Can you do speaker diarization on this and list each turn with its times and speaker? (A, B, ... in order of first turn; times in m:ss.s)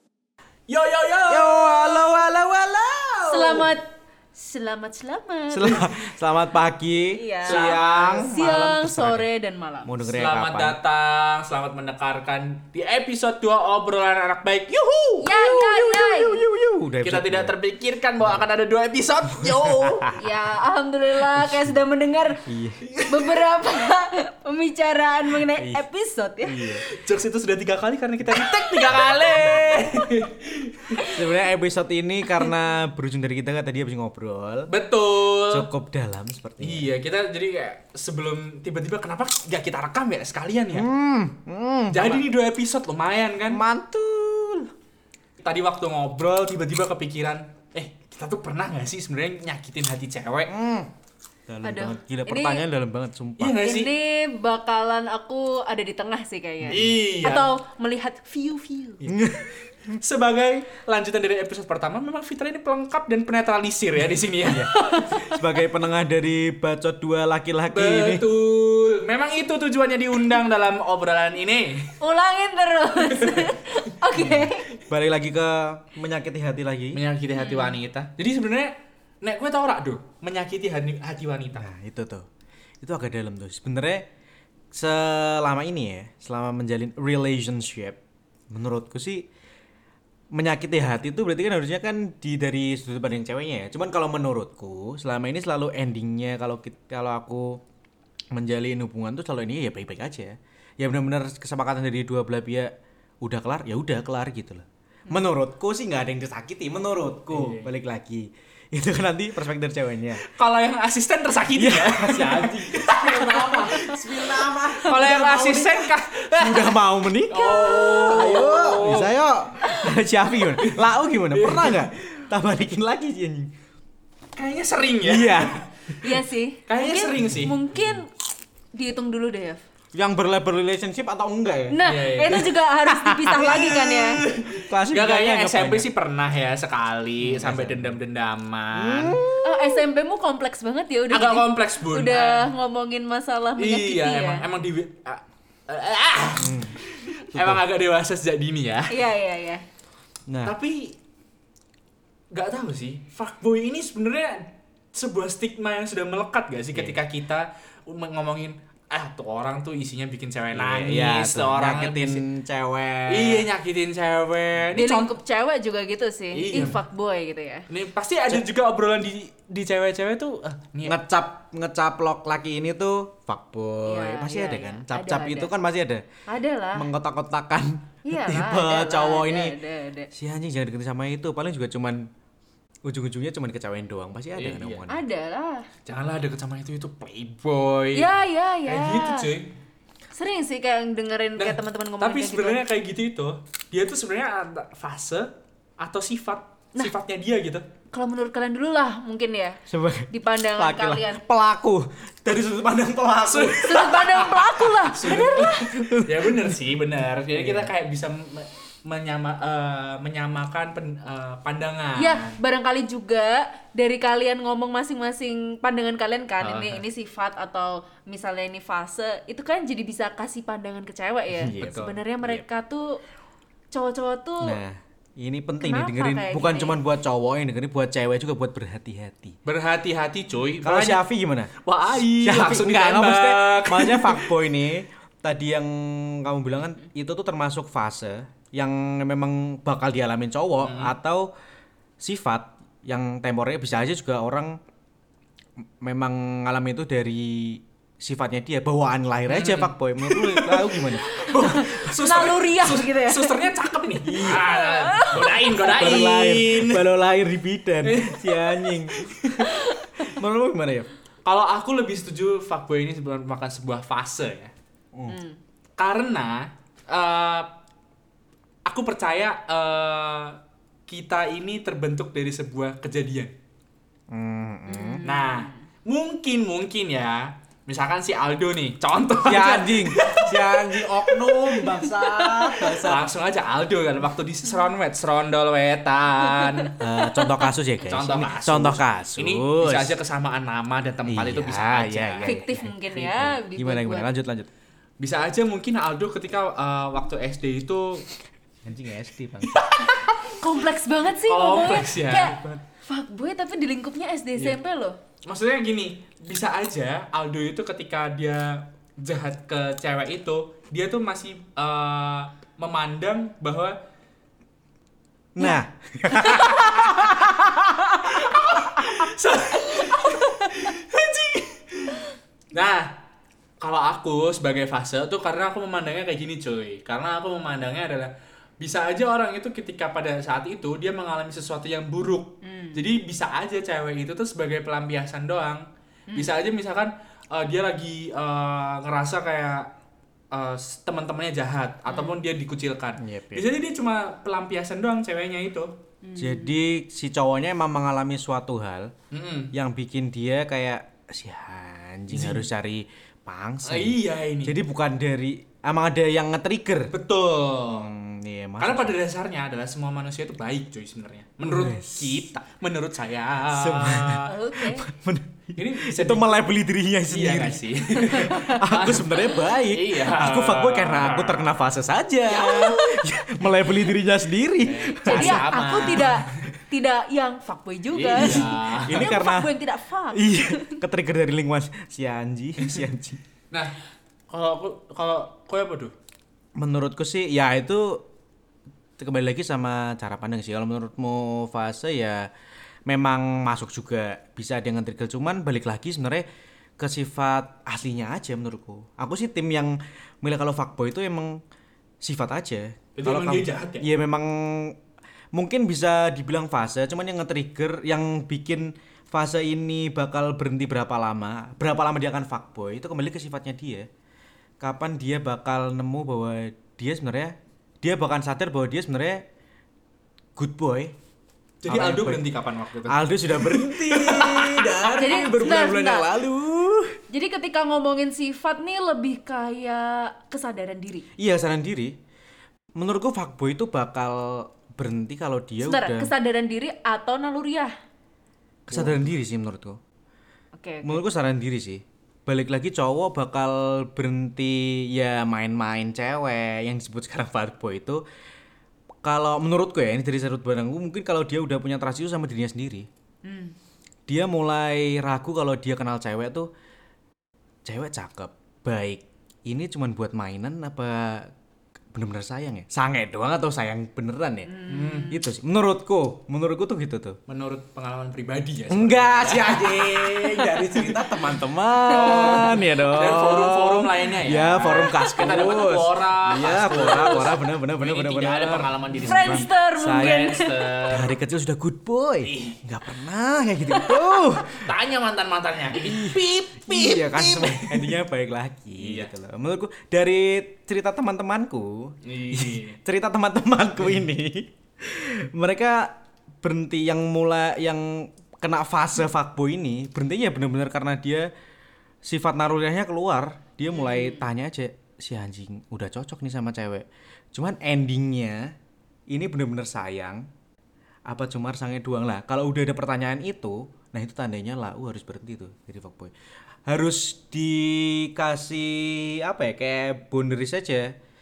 0:00.7-0:02.2 A
0:01.2-0:03.7 B
0:03.2-0:05.9 C
0:05.5-0:09.2 B
0:07.1-0:10.0 C
0:07.4-0:08.3 A
0:09.8-0:10.8 B
0:10.1-0:14.8 A
0:14.7-0:17.5 B
0:15.2-0:16.4 C
0:17.0-0:20.1 A
0:19.4-0:20.2 B
0:20.1-0:22.4 C
0:22.4-0:22.9 B
0:22.8-0:23.3 A
0:23.1-0:26.6 C
0:25.6-0:25.8 B
0:26.4-0:26.8 B
0:26.8-0:31.1 A
0:28.2-0:29.9 B
0:31.0-0:34.7 B
0:34.7-0:35.7 A
0:35.5-0:36.9 B
0:36.6-0:40.9 A
0:40.7-0:42.2 B
0:41.9-0:43.6 A
0:43.5-0:44.7 B
0:45.4-0:50.5 A
0:50.5-0:50.9 B
0:51.5-0:53.7 B
0:51.6-0:52.6 C
0:53.4-0:53.9 A
0:53.6-0:59.1 C
0:56.6-0:56.9 B
0:56.7-0:57.5 A
0:59.0-1:00.0 B
0:59.9-1:05.1 A
1:04.5-1:08.2 B
1:04.7-1:05.3 C
1:07.7-1:12.0 A
1:12.0-1:14.7 C
1:13.0-1:13.6 A
1:14.1-1:17.0 B
1:16.9-1:21.7 A
1:17.3-1:17.8 C
1:21.6-1:22.3 B
1:22.8-1:24.0 B
1:24.7-1:28.0 B
1:28.5-1:29.3 B
1:30.3-1:37.6 B
1:38.3-1:50.3 B
1:47.3-1:47.7 A
1:50.2-1:56.8 A
1:51.5-2:03.5 B
1:57.3-1:59.9 A
1:57.3-1:58.8 C
2:00.6-2:01.9 A
2:04.4-2:05.7 A
2:05.0-2:05.9 B
2:06.0-2:08.1 C
2:06.7-2:07.6 A
2:08.7-2:09.6 C
2:09.9-2:11.8 B
2:11.7-2:14.2 C
2:11.8-2:12.6 A
2:12.4-2:15.9 B
2:13.4-2:19.2 A
2:17.2-2:18.0 B
2:18.7-2:19.8 B
2:19.4-2:24.4 C
2:21.1-2:22.5 A
2:23.6-2:29.0 A
2:26.4-2:26.8 B
2:27.3-2:27.6 B
2:28.9-2:29.6 C
2:30.3-2:30.6 B
2:30.4-2:30.9 A
2:32.3-2:42.2 A
2:36.7-2:37.0 B
2:40.5-2:43.5 B
2:43.1-2:45.1 A
2:44.7-2:47.7 C
2:46.3-2:46.8 A
2:47.7-2:51.0 A
2:50.8-2:56.0 B
2:53.8-2:55.5 C
2:56.3-2:56.9 C
2:56.7-2:59.6 B
2:58.1-3:00.1 C
3:00.1-3:02.1 B
3:02.8-3:05.0 B
3:04.4-3:04.8 A
3:04.9-3:05.7 C
3:05.8-3:08.1 A
3:07.9-3:09.3 C
3:08.6-3:09.5 A
3:10.1-3:12.6 C
3:11.4-3:17.6 A
3:17.9-3:21.2 C
3:19.7-3:24.0 B
3:23.2-3:32.4 A
3:23.6-3:25.7 C
3:25.0-3:26.6 B
3:27.4-3:27.7 B
3:32.0-3:43.0 C
3:36.4-3:36.8 A
3:41.3-3:42.4 B
3:41.5-3:42.0 A
3:43.7-3:44.6 C
3:44.4-3:49.4 B
3:45.6-3:46.8 C
3:49.4-3:51.0 A
3:50.6-4:01.3 B
3:51.6-3:54.3 A
4:00.6-4:00.9 A
4:02.0-4:04.6 B
4:05.8-4:11.8 B
4:09.3-4:16.9 A
4:11.1-4:15.8 C
4:14.0-4:14.5 B
4:15.6-4:20.9 B
4:17.8-4:19.5 A
4:19.5-4:20.1 C
4:21.2-4:24.5 A
4:25.1-4:25.4 C
4:25.8-4:27.5 A
4:28.6-4:33.3 A
4:34.1-4:35.0 B
4:34.7-4:35.6 C
4:35.0-4:46.8 A
4:39.2-4:43.1 B
4:46.8-4:49.9 B
4:47.8-4:52.3 A
4:51.1-4:54.5 B
4:52.2-4:54.1 C
4:55.0-4:58.0 A
4:58.6-4:59.6 B
4:59.5-5:00.3 A
5:00.4-5:05.0 C
5:01.2-5:02.4 A
5:02.2-5:02.6 B
5:05.2-5:13.8 A
5:15.3-5:18.0 B
5:16.1-5:16.7 C
5:16.2-5:17.1 A
5:18.0-5:22.9 A
5:23.6-5:39.7 A
5:32.4-5:32.8 C
5:40.3-5:45.7 A
5:41.9-5:42.2 C
5:43.0-5:43.5 B
5:46.0-5:46.6 C
5:46.2-5:48.9 B
5:49.1-5:49.5 A
5:49.5-5:56.9 B
5:52.1-5:52.5 A
5:53.6-5:54.6 A
5:56.9-5:57.9 A
5:57.7-5:59.0 B
5:58.6-6:04.3 A
6:01.4-6:02.3 B
6:03.5-6:16.4 B
6:04.3-6:04.9 C
6:05.6-6:06.5 A
6:07.1-6:11.5 A
6:08.1-6:08.5 C
6:12.3-6:13.0 C
6:14.6-6:16.4 A
6:14.9-6:20.8 C
6:17.9-6:19.1 A
6:18.1-6:19.5 B
6:20.1-6:23.2 B
6:23.5-6:23.8 A
6:24.3-6:25.9 A
6:26.6-6:28.0 B
6:29.0-6:32.3 B
6:32.8-6:36.2 B
6:36.8-6:41.4 B
6:42.0-6:44.8 B
6:43.0-6:43.9 A
6:45.3-6:53.9 B
6:54.6-6:59.2 B
7:00.4-7:00.9 B
7:01.6-7:05.7 A
7:01.7-7:02.2 B
7:02.9-7:07.0 B
7:04.9-7:06.1 C
7:07.1-7:11.0 C
7:11.2-7:12.0 B
7:12.8-7:16.1 B
7:15.6-7:17.7 C
7:18.7-7:18.9 A
7:18.7-7:19.8 B
7:20.6-7:21.0 C
7:20.8-7:28.0 B
7:29.0-7:32.9 B
7:33.2-7:33.6 C
7:34.1-7:36.5 B
7:37.6-7:41.3 B
7:41.9-7:47.2 B
7:44.5-7:45.2 C
7:44.7-7:45.2 A
7:47.3-8:01.1 A
7:48.7-8:00.3 B
7:54.6-7:55.4 C
7:56.7-7:57.2 C
7:59.0-8:00.8 C
8:00.9-8:04.7 B
8:02.2-8:02.6 A
8:03.7-8:04.0 C
8:04.5-8:08.0 A
8:05.7-8:21.3 B
8:08.8-8:09.1 A
8:12.0-8:12.8 A
8:22.0-8:28.5 B
8:23.7-8:24.3 C
8:29.1-8:30.2 B
8:31.1-8:36.1 B
8:36.7-8:40.9 B